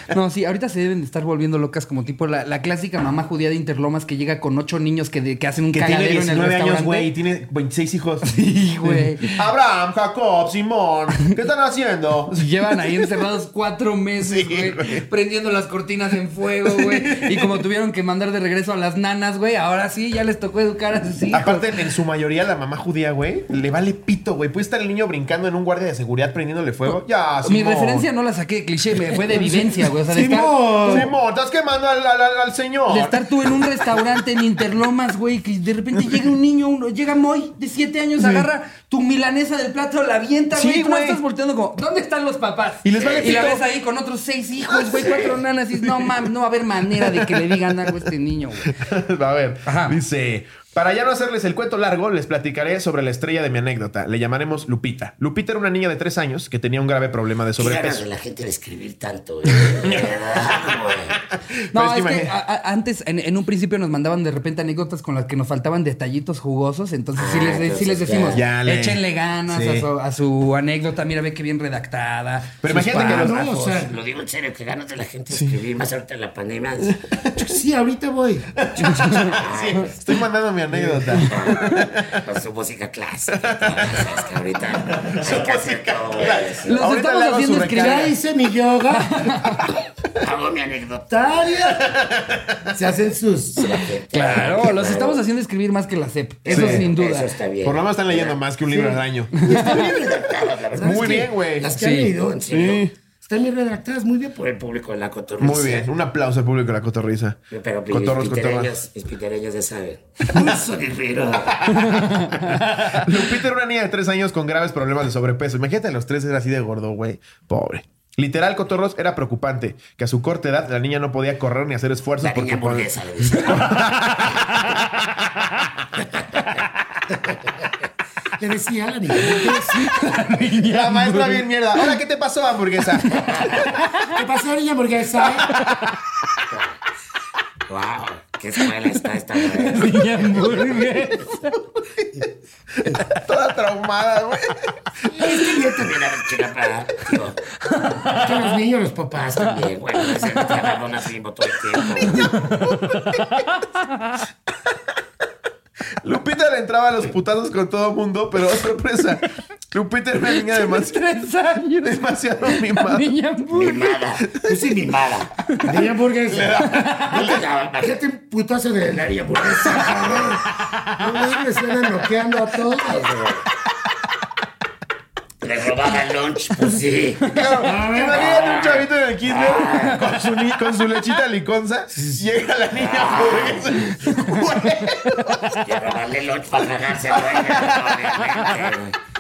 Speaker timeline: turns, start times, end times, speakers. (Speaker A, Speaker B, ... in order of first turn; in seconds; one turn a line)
Speaker A: 0.1-7.1
Speaker B: 5.7-13.2
Speaker A: 8.2-9.4
Speaker A: 12.3-21.7
Speaker B: 14.2-15.1
Speaker B: 16.6-17.6
Speaker B: 21.3-28.1
Speaker A: 27.4-31.1
Speaker C: 29.4-31.1
Speaker B: 30.9-33.2
Speaker A: 32.9-48.7
Speaker B: 35.9-36.2
Speaker B: 38.2-38.5
Speaker B: 40.5-41.2
Speaker B: 42.8-43.6
Speaker D: 42.9-43.5
Speaker D: 44.9-45.4
Speaker B: 45.8-46.1
Speaker B: 46.9-48.0
Speaker B: 48.7-58.0
Speaker A: 49.6-50.0
Speaker D: 57.6-61.2
Speaker B: 59.7-62.4
Speaker A: 61.7-73.2
Speaker D: 67.2-68.4
Speaker B: 68.3-69.9
Speaker B: 72.6-73.4
Speaker C: 72.9-73.9
Speaker D: 72.9-77.0
Speaker B: 75.3-75.6
Speaker B: 76.8-77.6
Speaker C: 77.4-78.6
Speaker B: 78.6-82.2
Speaker A: 78.8-79.3
Speaker D: 79.1-80.0
Speaker C: 80.7-81.2
Speaker D: 81.2-86.8
Speaker B: 83.3-84.2
Speaker B: 84.8-88.2
Speaker A: 86.6-88.1
Speaker C: 87.7-89.3
Speaker A: 88.9-89.7
Speaker D: 90.1-91.5
Speaker C: 91.1-91.8
Speaker B: 91.5-92.6
Speaker C: 92.7-93.8
Speaker D: 93.6-95.2
Speaker A: 93.8-97.3
Speaker D: 96.4-98.4
Speaker B: 96.5-96.9
Speaker B: 97.6-99.3
Speaker C: 98.7-102.6
Speaker D: 99.5-101.3
Speaker B: 100.8-101.7
Speaker A: 101.8-102.1
Speaker D: 102.0-102.9
Speaker B: 102.5-102.9
Speaker C: 103.2-104.4
Speaker D: 104.4-105.9
Speaker B: 105.4-107.4
Speaker D: 107.5-111.7
Speaker B: 107.9-108.8
Speaker A: 111.7-112.6
Speaker B: 111.7-124.8
Speaker D: 122.2-123.9
Speaker C: 128.4-129.8
Speaker A: 129.2-131.9
Speaker B: 130.6-133.5
Speaker A: 133.0-134.2
Speaker C: 134.0-135.5
Speaker A: 135.4-136.0
Speaker D: 137.7-140.4
Speaker A: 139.4-141.6
Speaker B: 142.7-145.1
Speaker C: 145.1-145.9
Speaker D: 145.2-147.4
Speaker A: 147.6-148.5
Speaker C: 148.1-149.2
Speaker D: 149.1-152.4
Speaker A: 150.0-150.6
Speaker A: 151.7-154.2
Speaker B: 152.7-153.2
Speaker B: 156.0-161.1
Speaker A: 160.3-164.0
Speaker B: 161.8-163.1
Speaker D: 163.5-165.3
Speaker B: 164.2-164.6
Speaker C: 164.5-165.1
Speaker A: 165.5-165.8
Speaker C: 165.6-170.4
Speaker B: 166.3-167.4
Speaker A: 166.6-167.3
Speaker D: 167.1-168.0
Speaker D: 169.3-170.4
Speaker C: 171.0-173.2
Speaker D: 172.8-173.4
Speaker D: 175.4-177.3
Speaker A: 177.2-177.7
Speaker B: 177.3-185.6
Speaker C: 177.6-178.4
Speaker D: 178.0-180.1
Speaker C: 181.9-182.2
Speaker D: 182.7-183.9
Speaker A: 184.1-184.4
Speaker A: 185.1-185.6
Speaker D: 185.6-188.9
Speaker B: 187.1-188.4